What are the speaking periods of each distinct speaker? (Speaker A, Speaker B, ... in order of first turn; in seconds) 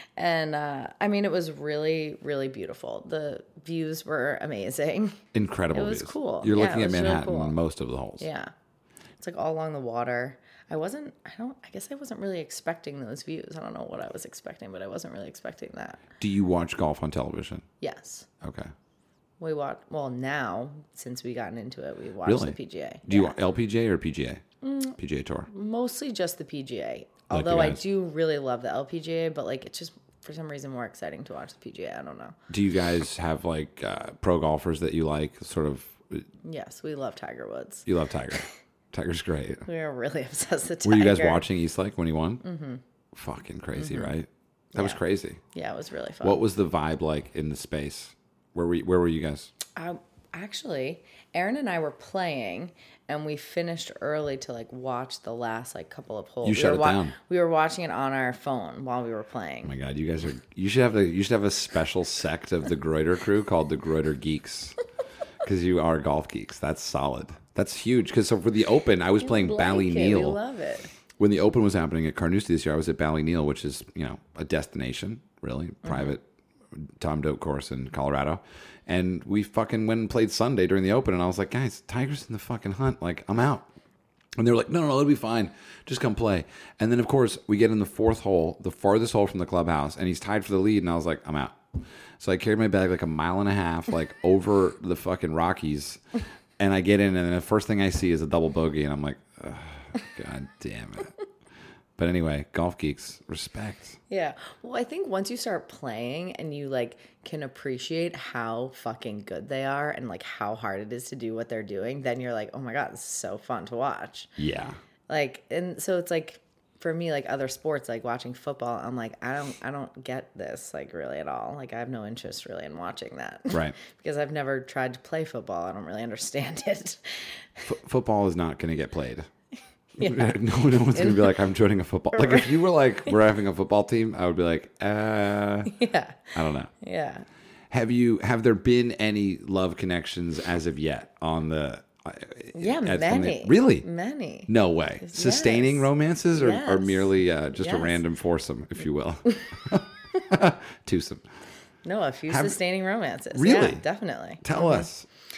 Speaker A: 0.2-5.2, 5.7-7.6, 8.2-8.5, 9.2-16.0, 17.8-18.3, 19.4-23.4, 24.6-25.0, 25.5-32.4, 36.4-37.9, 39.7-41.4, 42.4-42.8, 43.8-44.1, 44.7-45.0, 45.5-46.4, 49.8-59.7, 69.2-70.9, 75.8-76.1, 104.1-114.3, 115.1-127.7, 130.0-131.4, 132.1-133.1, 135.7-137.3, 142.6-144.5, 145.0-148.0, 151.8-154.9
Speaker B: 5.3-8.3, 16.2-17.6, 18.4-18.7, 22.2-24.4, 25.0-25.5, 27.3-27.8, 32.5-36.2, 37.9-39.7, 40.8-42.4, 43.1-45.4, 46.2-49.5, 56.4-57.2, 59.6-64.8, 65.4-70.4, 71.2-83.7, 84.4-91.6, 92.2-96.0, 96.6-101.1, 102.0-104.0, 114.4-114.8, 123.5-123.8, 127.7-129.3, 130.0-135.8, 136.3-136.7, 137.7-143.9, 144.5-151.2, 152.3-152.6, 153.3-153.8, 154.4-155.1